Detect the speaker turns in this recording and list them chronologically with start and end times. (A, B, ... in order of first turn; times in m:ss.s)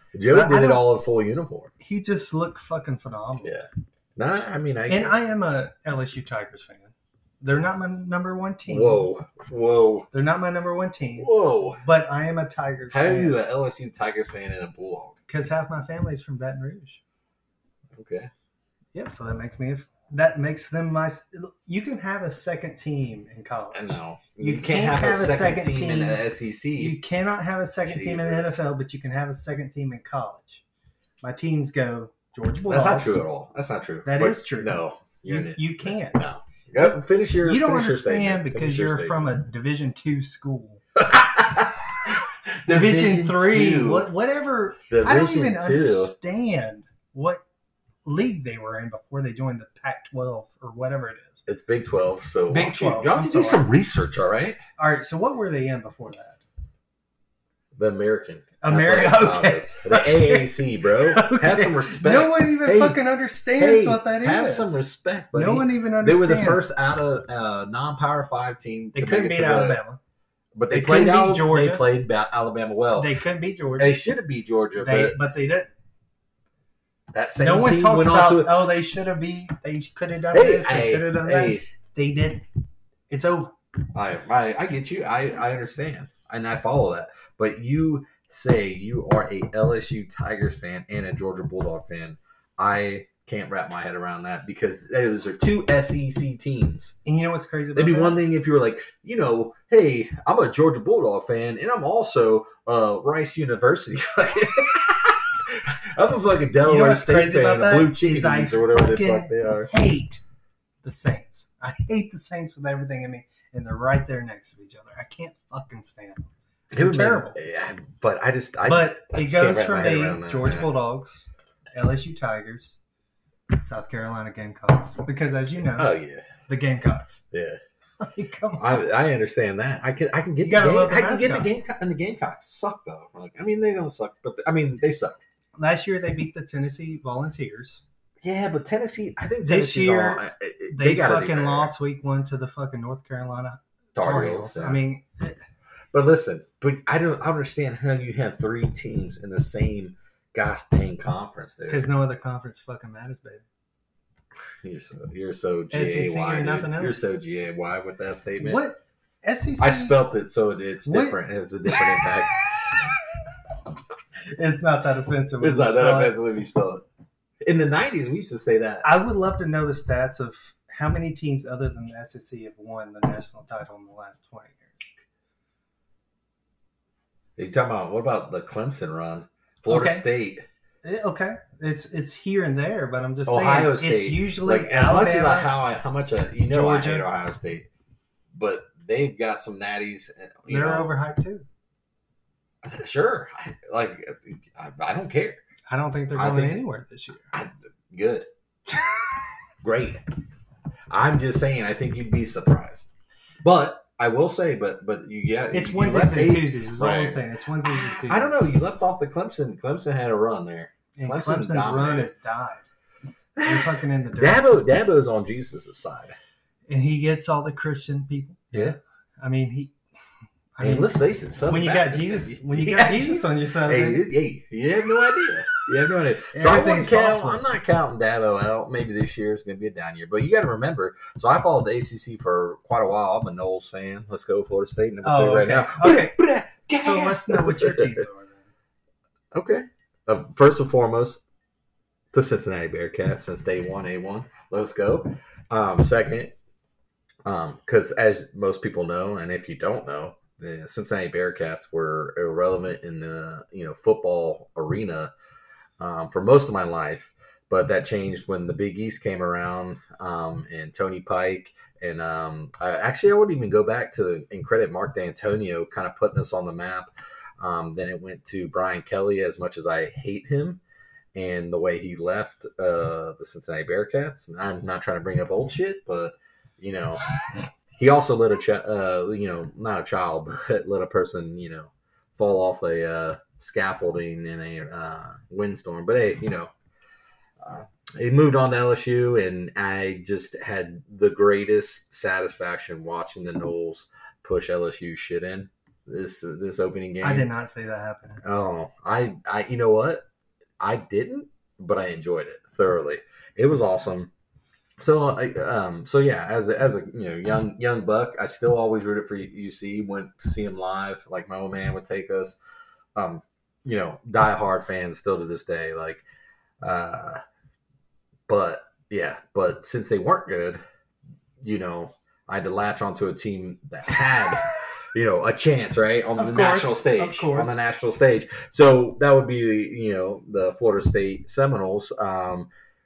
0:00.1-0:01.7 A
0:00.3-0:00.8 B
0:01.8-0:03.6 B
0:03.4-0:05.1 A
0:04.9-0:09.0 B
0:08.7-0:10.1 A
0:10.1-0:11.3 B
0:11.2-0:11.8 A
0:11.8-0:13.4 B
0:12.9-0:15.2 A
0:15.3-0:17.0 B
0:17.9-0:18.3 A
0:18.9-0:26.2 B
0:23.7-0:27.0 A
0:26.8-0:30.6 B
0:27.8-0:28.6 A
0:31.2-0:33.2 B
0:32.7-0:39.2 A
0:34.0-0:36.2 B
0:36.8-0:40.8 B
0:41.0-0:44.1 A
0:42.7-0:47.4 B
0:44.9-0:46.1 A
0:48.0-0:51.4 B
0:51.4-0:54.6 A
0:52.5-0:53.7 B
0:54.8-0:56.4 B
0:57.8-1:03.0 A
0:58.6-1:04.8 B
1:03.6-1:09.8 A
1:05.3-1:06.6 B
1:08.9-1:10.0 B
1:10.6-1:13.1 A
1:10.7-1:11.8 B
1:13.0-1:14.0 B
1:13.8-1:15.2 A
1:14.8-1:15.7 B
1:17.1-1:18.6 A
1:17.4-1:22.4 B
1:20.3-1:21.6 A
1:23.1-1:23.6 B
1:23.9-1:37.0 A
1:37.0-1:38.2 B
1:37.7-1:49.7 A
1:46.6-1:50.2 B
1:50.8-1:57.4 B
1:56.7-2:00.7 A
1:58.6-2:02.8 B
2:03.5-2:05.9 B
2:05.8-2:06.3 A
2:06.5-2:07.2 B
2:07.3-2:07.6 A
2:08.0-2:08.6 B
2:08.6-2:15.2 A
2:10.4-2:11.5 B
2:15.6-2:17.8 B
2:18.2-2:21.7 A
2:19.4-2:20.2 B
2:20.7-2:25.4 B
2:24.0-2:24.8 A
2:25.9-2:31.9 A
2:31.7-2:33.4 B
2:34.6-2:38.6 A
2:35.7-2:37.0 B
2:38.4-2:39.9 B
2:39.6-2:42.4 A
2:40.8-2:41.2 B
2:41.7-2:42.1 B
2:44.3-2:46.2 B
2:45.4-2:46.8 A
2:47.4-2:48.8 A
2:48.8-2:54.9 B
2:57.4-3:00.4 A
2:59.7-3:00.0 B
3:00.8-3:05.5 B
3:03.2-3:07.7 A
3:06.5-3:07.1 B
3:08.3-3:10.9 A
3:10.5-3:11.4 B
3:12.6-3:15.4 A
3:15.7-3:17.3 B
3:16.1-3:16.6 A
3:17.3-3:18.8 A
3:19.6-3:20.0 A
3:20.9-3:32.1 A
3:25.5-3:28.5 B
3:31.0-3:32.6 B
3:33.4-3:36.2 A
3:33.4-3:34.5 B
3:36.7-3:39.7 B
3:40.6-3:40.9 B
3:40.6-3:58.0 A
3:41.5-3:44.0 B
3:46.3-3:47.4 B
3:55.0-3:56.2 B
3:56.8-3:58.5 B
3:59.3-4:01.2 A
4:02.1-4:06.3 A
4:07.2-4:15.1 A
4:15.8-4:30.6 A
4:31.1-4:46.5 A
4:47.4-4:57.3 A
4:57.0-4:58.2 B
4:58.2-5:00.0 A
5:00.6-5:04.1 A
5:04.8-5:12.4 A
5:13.0-5:16.0 A
5:16.6-5:17.2 A
5:18.3-5:20.6 A
5:21.4-5:32.5 A
5:26.2-5:27.6 B